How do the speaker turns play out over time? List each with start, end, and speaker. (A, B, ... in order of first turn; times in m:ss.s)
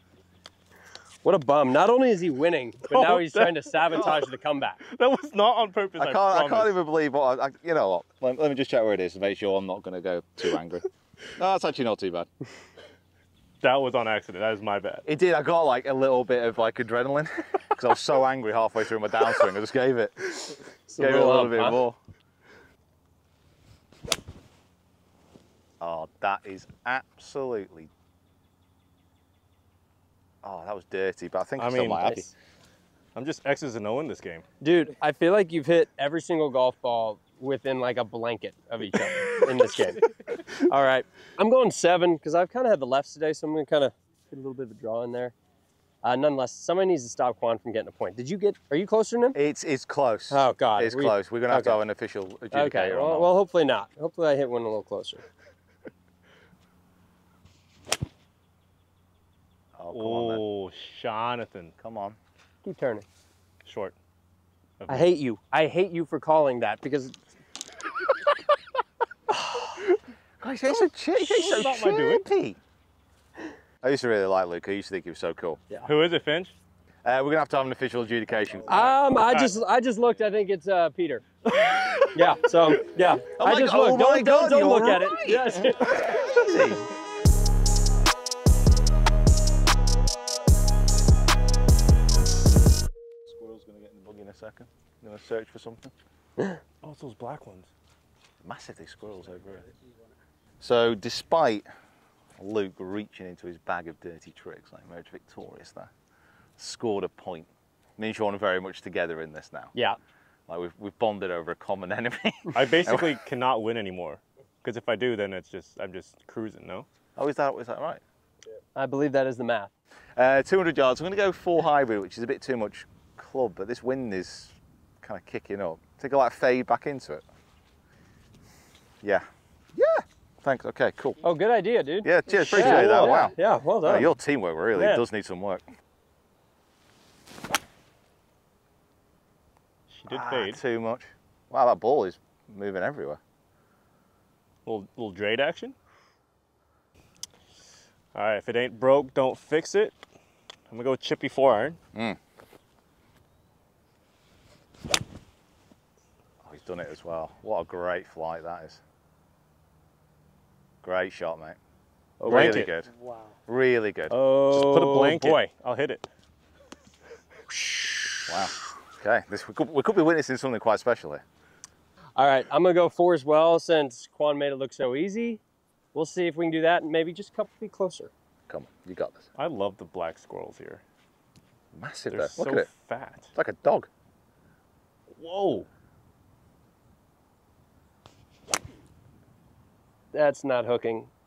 0:01.2-0:04.8 A
0:02.9-0:04.2 B
0:04.8-0:06.7 B
0:06.0-0:12.3 C
0:13.6-0:15.0 B
0:15.0-0:22.0 C
0:20.9-0:21.8 A
0:25.8-0:27.9 C
0:30.4-0:32.3 C
0:31.6-0:32.2 B
0:32.0-0:32.3 A
0:33.1-0:34.4 B
0:34.6-0:40.0 A
0:40.6-0:45.3 A
0:46.0-0:49.4 A
0:49.3-0:53.3 C
0:50.3-0:51.8 A
0:52.5-0:55.2 A
0:59.8-1:00.4 C
0:59.9-1:01.7 B
1:01.8-1:02.2 C
1:02.6-1:03.0 A
1:03.6-1:03.9 B
1:04.8-1:05.1 B
1:04.9-1:07.2 A
1:09.3-1:09.8 A
1:10.4-1:12.6 C
1:11.2-1:12.2 B
1:13.8-1:15.6 C
1:15.8-1:16.5 B
1:17.0-1:18.9 C
1:18.6-1:21.2 A
1:21.5-1:22.1 B
1:22.1-1:26.2 A
1:23.4-1:26.9 C
1:33.2-1:35.9 C
1:36.8-1:37.7 B
1:38.4-1:39.7 C
1:40.6-1:41.6 C
1:42.4-1:45.9 C
1:46.6-1:49.7 C
1:50.5-1:53.2 C
1:52.5-1:56.8 B
1:57.2-1:58.0 C
1:58.7-1:59.7 A
2:00.2-2:07.2 C
2:09.0-2:11.2 C
2:11.2-2:14.1 A
2:12.0-2:15.6 C
2:12.4-2:13.3 B
2:14.7-2:15.0 A
2:19.9-2:20.6 B
2:20.1-2:23.2 C
2:24.6-2:25.7 B
2:28.1-2:30.0 B
2:30.7-2:31.8 B
2:36.4-2:38.8 C
2:40.8-2:41.6 C
2:42.2-2:42.7 A
2:42.2-2:42.7 B
2:42.2-2:42.9 C
2:43.5-2:44.1 C
2:44.1-2:45.4 A
2:44.1-2:46.0 B
2:47.5-2:48.4 A
2:48.2-2:51.2 C
2:52.2-2:55.4 A
2:55.9-2:58.1 A
2:58.5-2:59.2 C
2:59.4-3:00.8 B
3:01.7-3:02.7 C
3:02.1-3:03.3 B
3:03.3-3:03.9 C
3:05.2-3:05.7 B
3:10.1-3:11.1 A